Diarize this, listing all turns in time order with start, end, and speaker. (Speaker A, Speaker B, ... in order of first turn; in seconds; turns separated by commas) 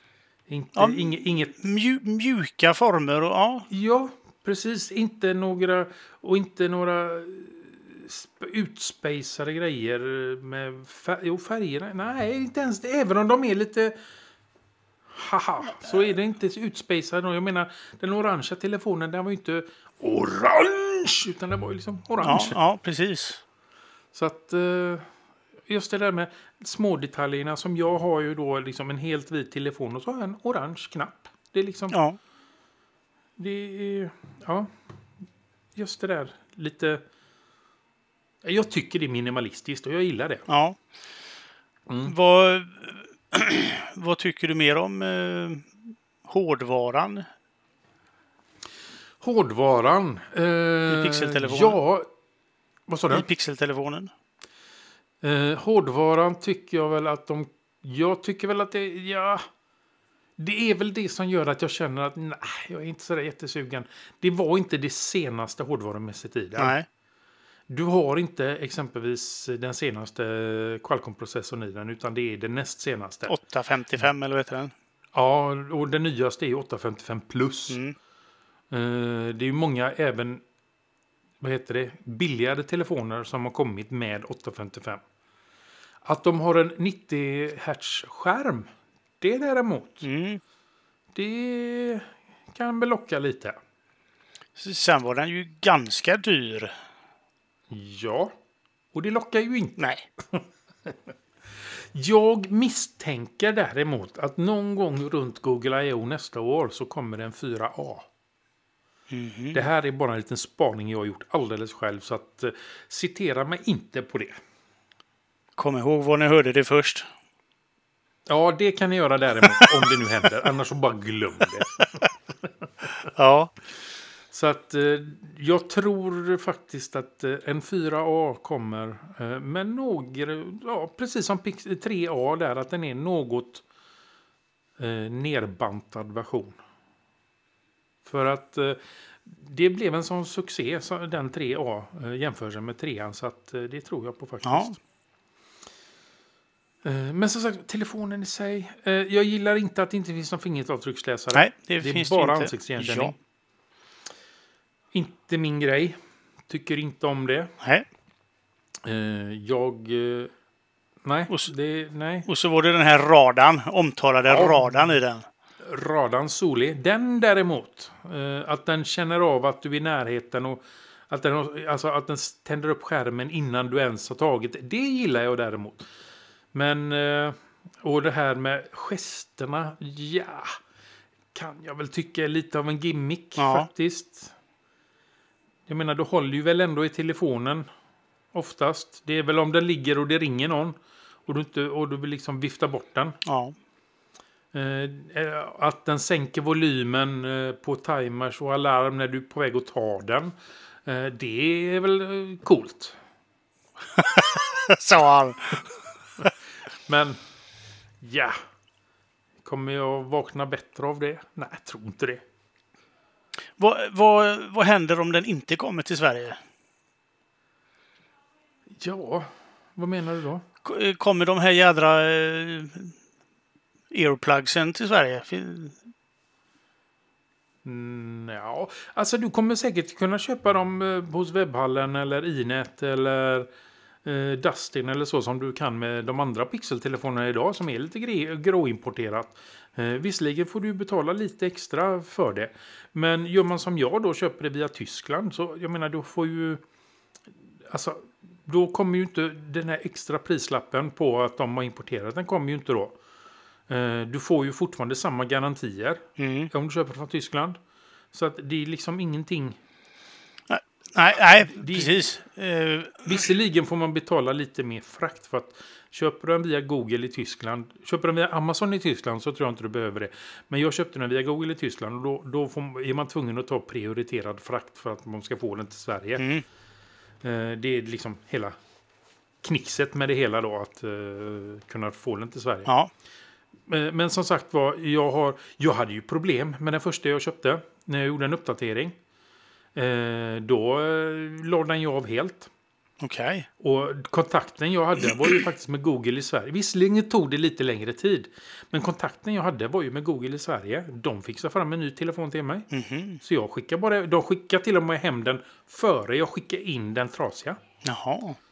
Speaker A: 0.5-1.6, Speaker B: 0.7-3.7, Speaker A: 3.7-14.0, Speaker A: 15.1-22.6, Speaker B: 22.2-23.4, Speaker A: 24.1-25.1, Speaker A: 25.7-32.0, Speaker B: 31.9-32.2, Speaker A: 33.4-34.7, Speaker A: 35.7-37.0, Speaker A: 38.4-40.5, Speaker B: 40.5-40.8, Speaker A: 41.9-42.1, Speaker B: 42.0-47.3, Speaker A: 49.2-52.1, Speaker B: 50.9-51.8, Speaker A: 52.9-53.3, Speaker B: 53.1-54.1, Speaker A: 55.2-59.4, Speaker A: 60.4-66.8, Speaker B: 66.6-66.8, Speaker A: 67.7-73.3, Speaker B: 73.3-74.7, Speaker A: 75.1-77.8, Speaker B: 77.7-78.0, Speaker A: 78.7-80.4, Speaker A: 81.4-85.0, Speaker A: 86.0-88.7, Speaker A: 89.2-90.0, Speaker B: 90.0-90.4, Speaker A: 91.1-93.6, Speaker B: 94.6-96.7, Speaker A: 97.7-98.3, Speaker A: 98.9-101.0, Speaker B: 99.8-100.0, Speaker A: 101.6-108.1, Speaker B: 109.1-109.6, Speaker A: 109.5-114.4, Speaker B: 115.6-117.1, Speaker A: 118.3-122.1, Speaker B: 119.4-119.7, Speaker B: 123.0-123.5, Speaker A: 124.3-133.6, Speaker A: 134.8-136.6, Speaker A: 138.0-144.8, Speaker B: 144.4-144.8, Speaker A: 146.8-153.2, Speaker B: 151.3-153.1, Speaker A: 154.9-155.9, Speaker A: 156.5-157.5, Speaker B: 157.6-157.8, Speaker A: 158.8-160.3, Speaker A: 161.0-162.3, Speaker B: 162.2-165.2, Speaker A: 164.3-164.9, Speaker A: 165.6-175.8, Speaker A: 176.5-180.6, Speaker A: 181.3-184.3, Speaker B: 183.4-183.7, Speaker A: 185.7-187.7, Speaker A: 188.3-193.2, Speaker B: 193.2-193.5, Speaker A: 194.5-200.3, Speaker A: 200.8-203.0, Speaker B: 203.9-205.7, Speaker A: 206.8-207.2, Speaker A: 208.0-208.3, Speaker A: 209.4-212.2, Speaker B: 213.6-216.4, Speaker A: 218.7-220.4, Speaker B: 220.6-222.9, Speaker B: 223.9-225.8, Speaker A: 227.6-233.5, Speaker A: 234.0-246.6, Speaker A: 247.6-253.0, Speaker A: 253.7-257.6, Speaker B: 256.2-256.5, Speaker A: 258.1-259.6, Speaker B: 260.5-263.2, Speaker A: 261.4-261.9, Speaker A: 263.0-276.2, Speaker B: 276.2-276.4, Speaker A: 277.2-278.6, Speaker A: 279.4-282.7, Speaker B: 282.6-282.9, Speaker A: 283.7-288.9, Speaker A: 289.7-292.5, Speaker B: 293.0-293.5, Speaker A: 293.6-302.7, Speaker B: 302.7-303.2, Speaker A: 303.2-307.6, Speaker B: 307.8-308.4